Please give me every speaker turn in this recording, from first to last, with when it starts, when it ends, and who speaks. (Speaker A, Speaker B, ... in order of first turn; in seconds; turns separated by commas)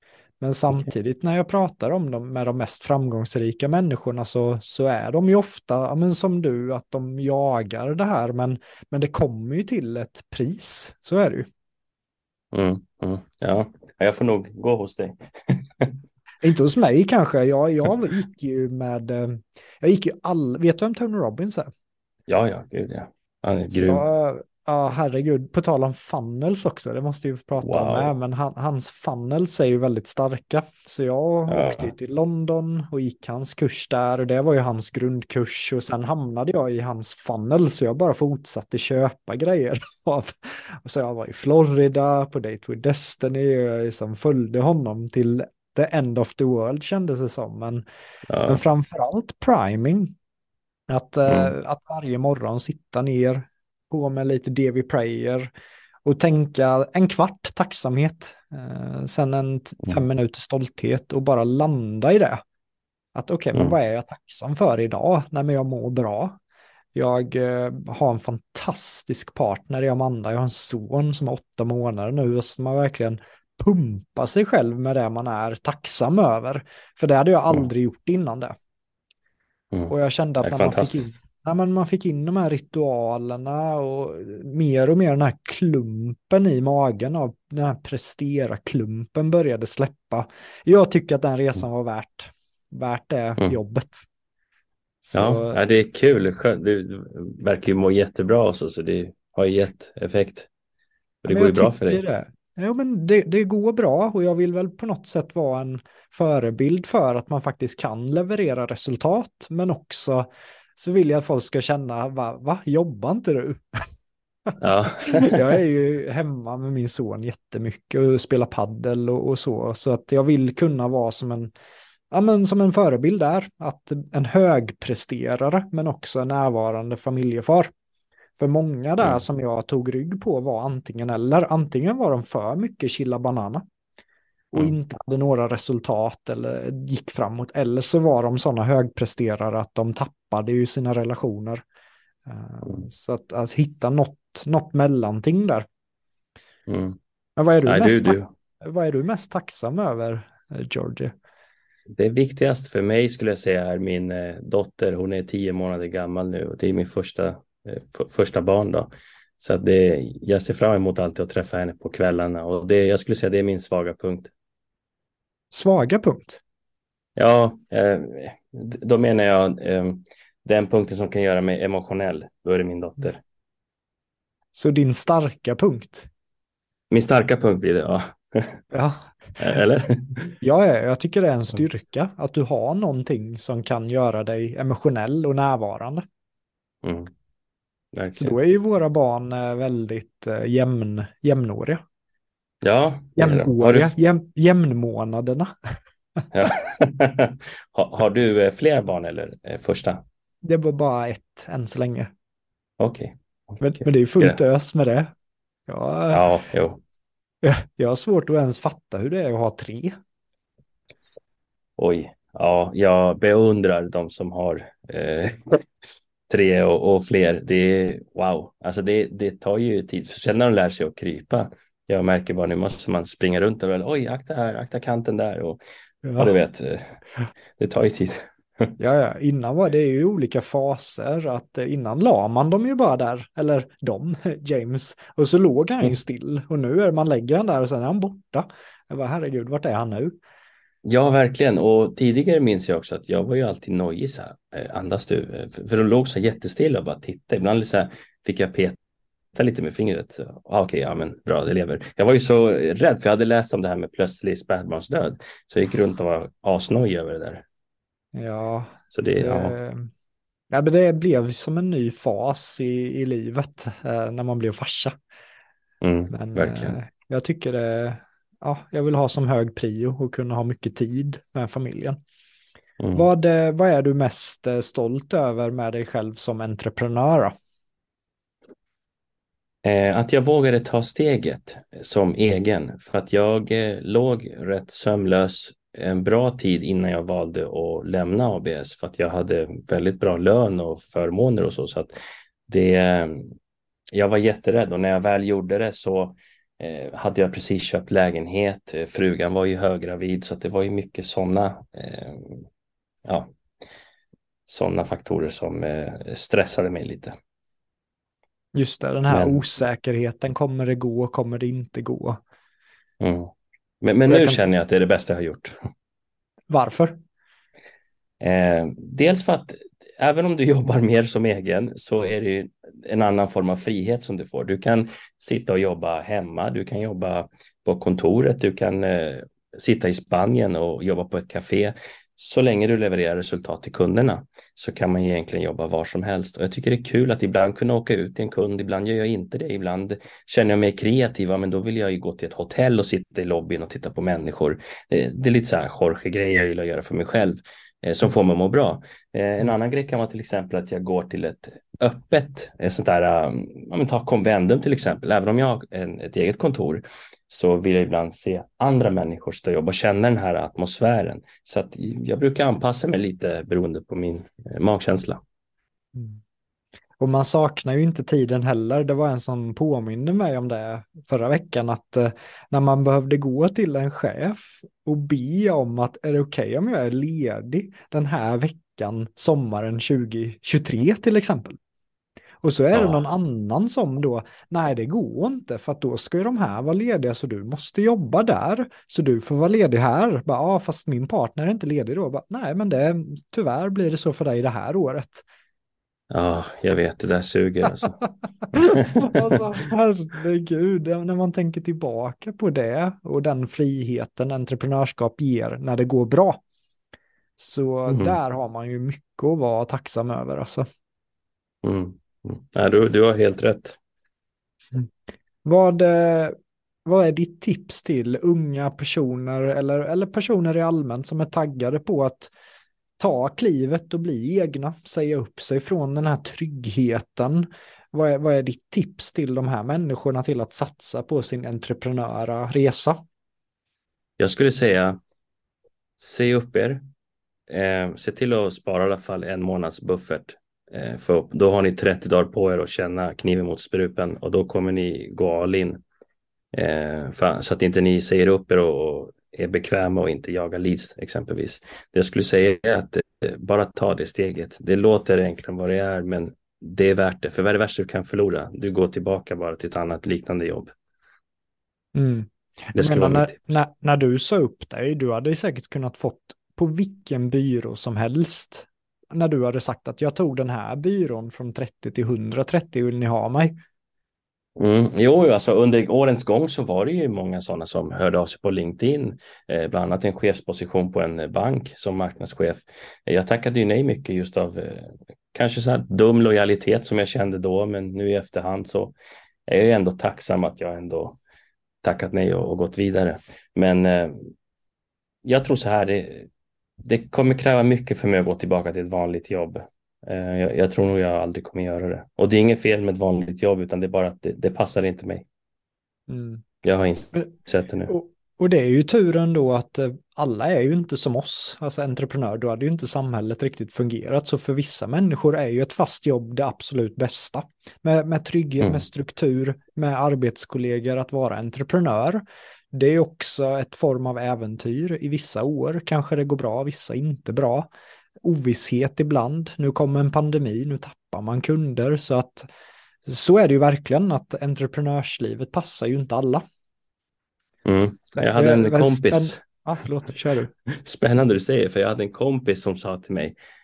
Speaker A: 0.4-11.5, Speaker B: 12.5-16.0, Speaker A: 16.4-21.7, Speaker B: 22.3-24.1, Speaker A: 23.7-47.8, Speaker B: 27.6-28.1, Speaker B: 31.5-31.9, Speaker B: 48.3-48.6, Speaker A: 48.5-50.1, Speaker A: 50.9-55.5, Speaker A: 56.0-62.4, Speaker A: 63.1-66.4, Speaker A: 67.0-78.6, Speaker B: 79.7-81.0, Speaker A: 79.9-94.1, Speaker A: 95.0-95.6, Speaker B: 95.1-100.5, Speaker B: 101.2-102.0, Speaker A: 101.3-113.9, Speaker B: 114.6-115.4, Speaker A: 115.0-121.5, Speaker A: 122.1-127.7, Speaker A: 128.4-133.6, Speaker A: 134.5-141.6, Speaker A: 142.3-145.7, Speaker B: 146.7-147.0, Speaker A: 147.4-151.1, Speaker B: 147.7-148.3, Speaker B: 151.9-164.3, Speaker A: 165.5-166.4, Speaker B: 167.2-173.2, Speaker A: 174.6-176.1, Speaker B: 176.9-178.6, Speaker A: 178.7-179.3, Speaker B: 179.4-180.4, Speaker A: 180.4-186.0, Speaker B: 186.8-187.1, Speaker B: 187.9-188.4, Speaker A: 188.2-191.8, Speaker B: 192.6-193.9, Speaker A: 193.2-195.5, Speaker B: 196.3-200.0, Speaker A: 200.4-202.1, Speaker B: 202.8-204.4, Speaker A: 203.6-205.1, Speaker A: 205.7-206.2, Speaker B: 206.1-206.8, Speaker A: 207.4-209.9, Speaker B: 211.8-215.7, Speaker B: 216.3-225.6, Speaker A: 226.0-226.4, Speaker B: 226.2-227.0, Speaker B: 227.6-228.7, Speaker A: 228.8-240.2, Speaker B: 240.8-248.8, Speaker B: 249.3-257.4, Speaker A: 258.1-259.9, Speaker B: 258.9-259.6, Speaker A: 260.5-264.9, Speaker B: 265.8-266.8, Speaker A: 266.1-272.0, Speaker B: 272.8-273.1, Speaker A: 272.9-277.3, Speaker B: 279.6-291.9, Speaker B: 292.5-293.3, Speaker B: 293.9-302.5, Speaker B: 303.1-303.3, Speaker B: 304.5-307.1, Speaker A: 308.6-312.2, Speaker B: 309.1-309.4, Speaker B: 313.0-315.6, Speaker A: 314.1-314.4, Speaker A: 316.5-317.0, Speaker B: 318.2-365.2, Speaker A: 365.9-366.2, Speaker A: 367.0-381.6, Speaker A: 382.4-395.3, Speaker B: 382.7-383.1, Speaker B: 396.1-398.0, Speaker A: 398.5-406.4, Speaker B: 398.5-399.3, Speaker A: 407.4-410.6, Speaker B: 407.9-408.2, Speaker B: 411.6-413.8, Speaker A: 415.4-422.3, Speaker A: 423.0-433.0, Speaker B: 434.2-435.0, Speaker B: 436.0-436.8, Speaker B: 437.5-445.8, Speaker B: 446.5-460.7, Speaker A: 461.9-473.6, Speaker B: 462.8-463.6, Speaker B: 474.6-488.9, Speaker B: 489.5-491.2, Speaker B: 491.8-494.3, Speaker B: 495.2-496.3, Speaker B: 496.8-505.3, Speaker A: 506.1-506.4, Speaker B: 506.6-507.9, Speaker A: 507.9-527.7, Speaker A: 528.2-532.5, Speaker A: 533.1-536.4, Speaker B: 537.6-539.4, Speaker A: 538.2-540.5, Speaker B: 540.7-543.4